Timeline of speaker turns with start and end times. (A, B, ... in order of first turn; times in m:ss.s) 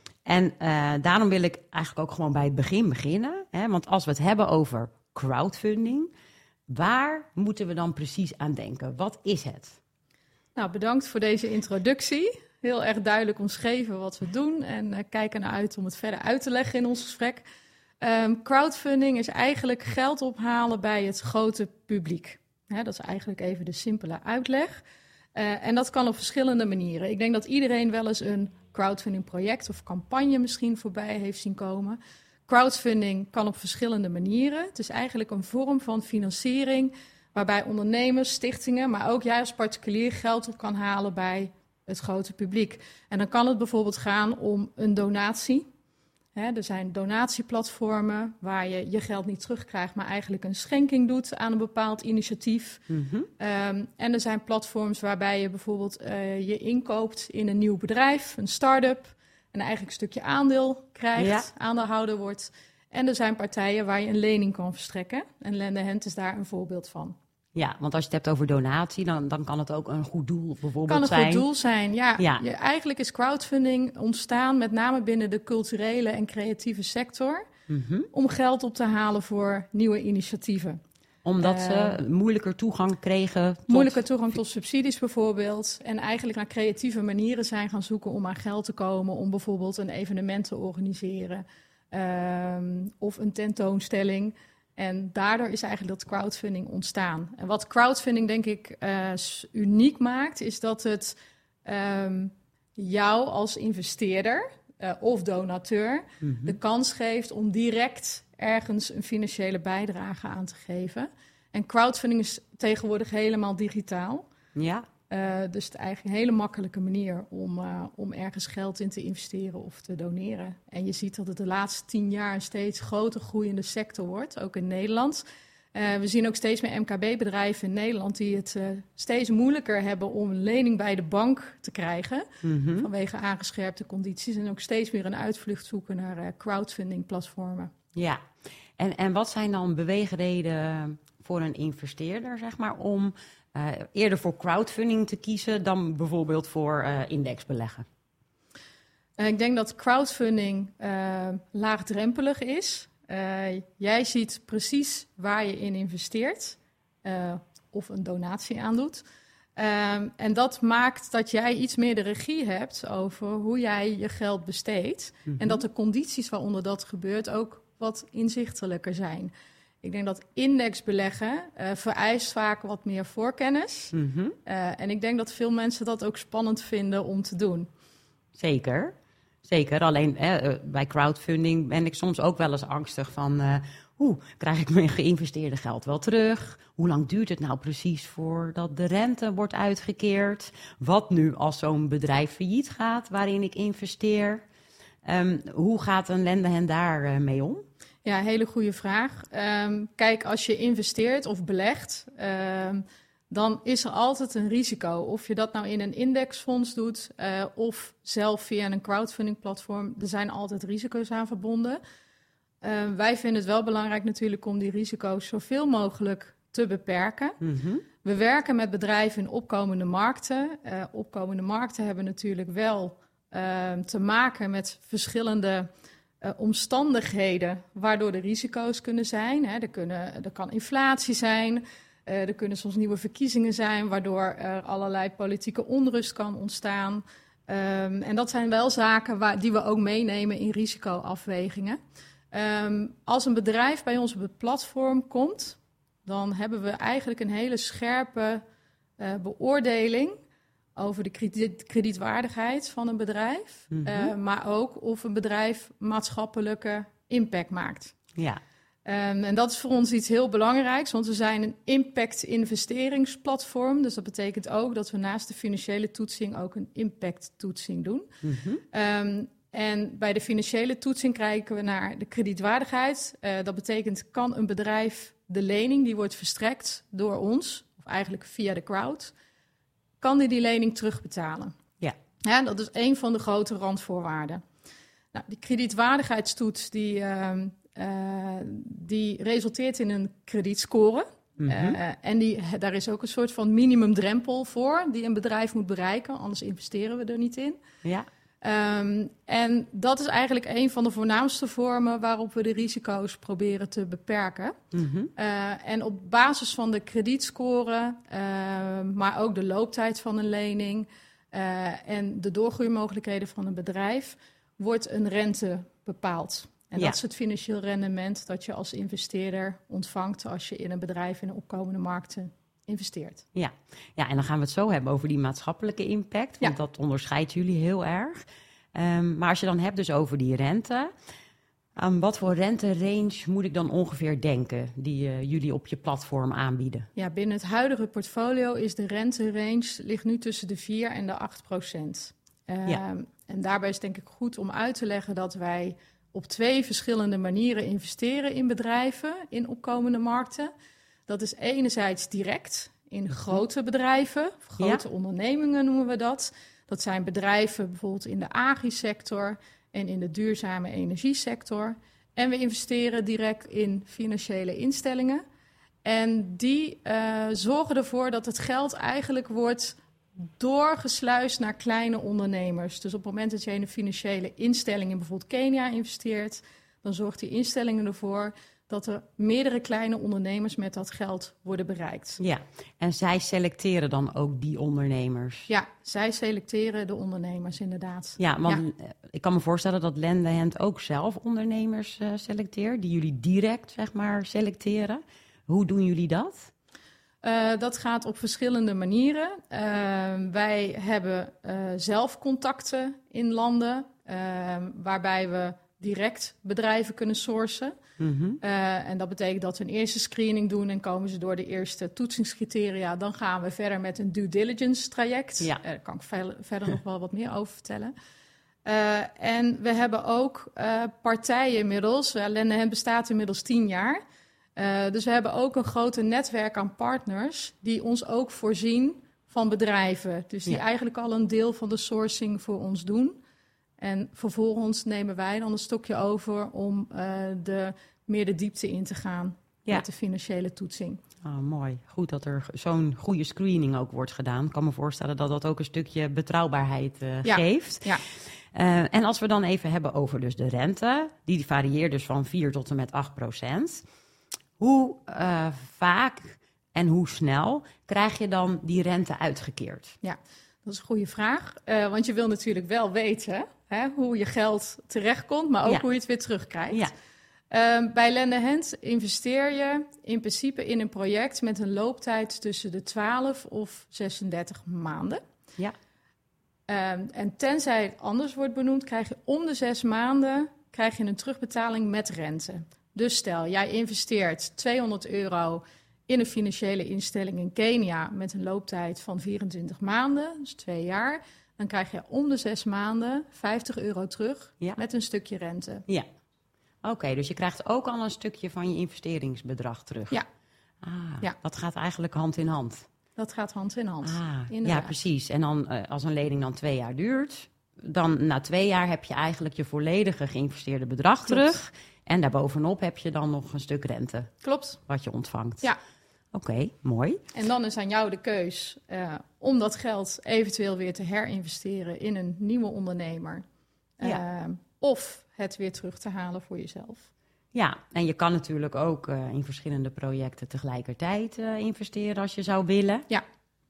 0:00.3-0:06.1 A
0:06.7-0:09.8 A
0:10.6-0:17.4 B
0:18.0-0:24.8 B
0:25.4-0:45.7 B
0:46.3-0:52.8 B
0:52.9-0:53.3 A
0:53.4-1:07.2 B
1:01.2-1:01.5 A
1:07.6-1:11.4 A
1:10.9-1:17.5 B
1:12.2-1:12.4 A
1:17.7-1:18.1 A
1:18.1-1:20.8 B
1:21.2-1:24.0 A
1:21.4-1:22.0 B
1:23.7-1:54.3 B
1:46.2-1:46.6 A
1:54.6-1:54.9 A
1:55.1-2:05.2 B
2:05.7-2:12.3 B
2:12.4-2:12.9 A
2:12.8-2:17.7 B
2:18.0-2:18.2 A
2:18.8-2:27.9 A
2:29.2-2:39.0 B
2:39.6-2:53.9 B
2:45.3-2:45.6 A
2:53.9-2:54.4 A
2:54.5-2:57.7 B
2:58.4-3:14.4 A
3:15.0-3:17.6 A
3:18.0-3:31.8 B
3:32.6-3:37.4 B
3:37.4-3:37.8 A
3:38.0-3:45.7 B
3:46.2-4:01.8 B
4:02.3-4:08.4 B
4:09.0-4:10.2 B
4:10.8-4:18.0 B
4:13.7-4:14.1 A
4:18.8-4:28.1 B
4:28.2-4:28.6 A
4:28.7-4:39.1 B
4:40.0-4:41.6 B
4:42.2-4:44.4 B
4:45.1-4:57.6 B
4:51.4-4:51.8 A
4:58.4-5:04.6 B
5:04.7-5:05.1 A
5:05.2-5:23.2 B
5:23.4-5:28.2 A
5:28.7-5:30.9 A
5:31.8-5:36.9 A
5:37.0-5:50.5 B
5:51.1-6:05.2 B
6:05.8-6:22.2 B
6:22.2-6:25.5 A
6:25.5-6:28.6 B
6:28.2-6:36.5 A
6:37.2-6:47.8 B
6:48.0-6:48.4 A
6:48.4-6:57.9 B
6:58.6-7:04.0 B
7:04.6-7:13.2 B
7:13.8-7:21.0 B
7:21.2-7:33.8 A
7:27.2-7:28.0 B
7:34.6-7:40.0 A
7:40.0-7:46.9 B
7:47.5-7:55.2 B
7:56.7-8:15.8 B
8:16.8-8:20.2 A
8:20.8-8:22.9 A
8:23.2-8:24.9 B
8:24.0-8:34.3 A
8:31.3-8:31.6 B
8:34.4-8:34.8 B
8:34.9-8:35.7 A
8:36.3-8:37.2 A
8:37.3-8:43.4 B
8:44.0-8:47.1 B
8:47.5-8:53.1 A